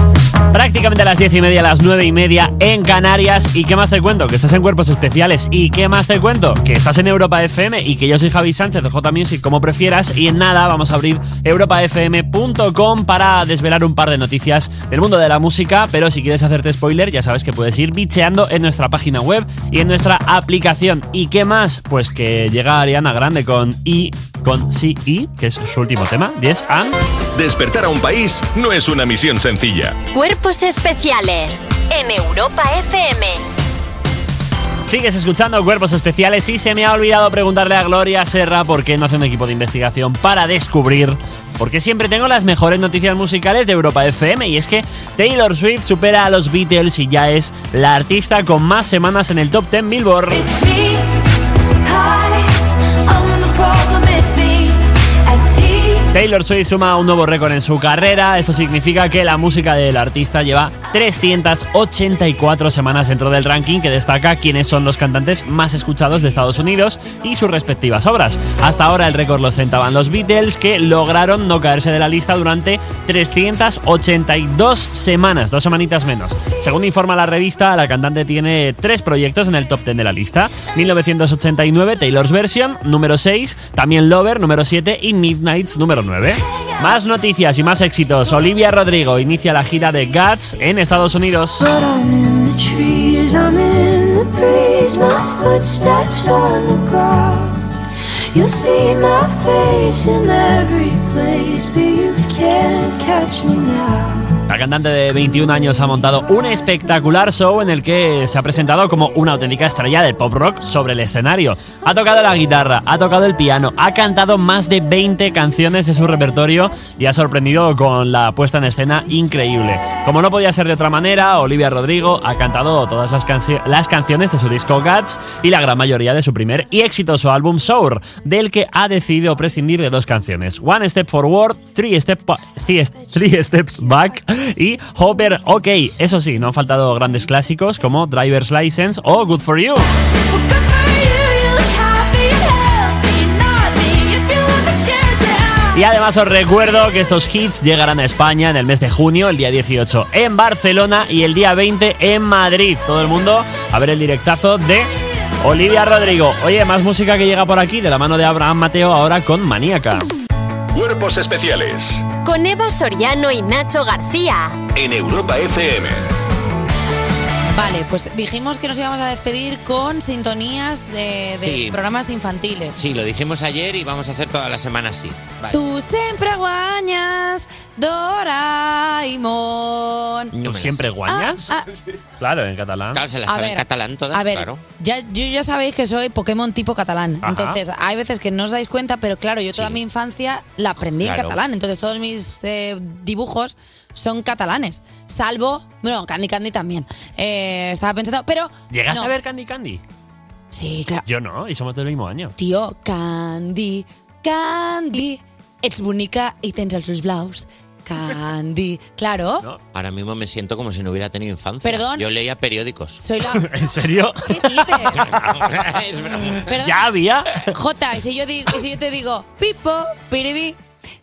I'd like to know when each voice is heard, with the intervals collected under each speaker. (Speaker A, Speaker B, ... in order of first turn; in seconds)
Speaker A: 0.5-27.0, 34.9-50.4, 56.1-91.7, 104.5-139.9, 145.7-160.1, 180.4-181.5, 182.2-183.0, 187.2-187.6, 198.7-199.8, 201.1-202.3, 213.3-215.3, 216.6-217.5
Speaker B: 27.4-30.0, 160.7-162.1, 164.7-166.0
Speaker C: 30.1-33.4, 162.2-164.6
Speaker D: 50.3-51.2, 51.8-56.1, 91.6-97.7, 98.3-104.4, 140.3-145.9
Speaker E: 167.5-172.8, 175.5-180.3, 181.1-181.7, 183.3-199.1, 200.5-201.1, 202.4-209.5, 211.6-212.1, 213.0-213.5, 214.2-215.1, 216.5-220.6
Speaker F: 171.4-171.8, 172.8-175.6, 180.3-180.9, 182.9-184.6, 189.6-189.8, 191.0-191.4, 209.7-213.0, 215.0-216.5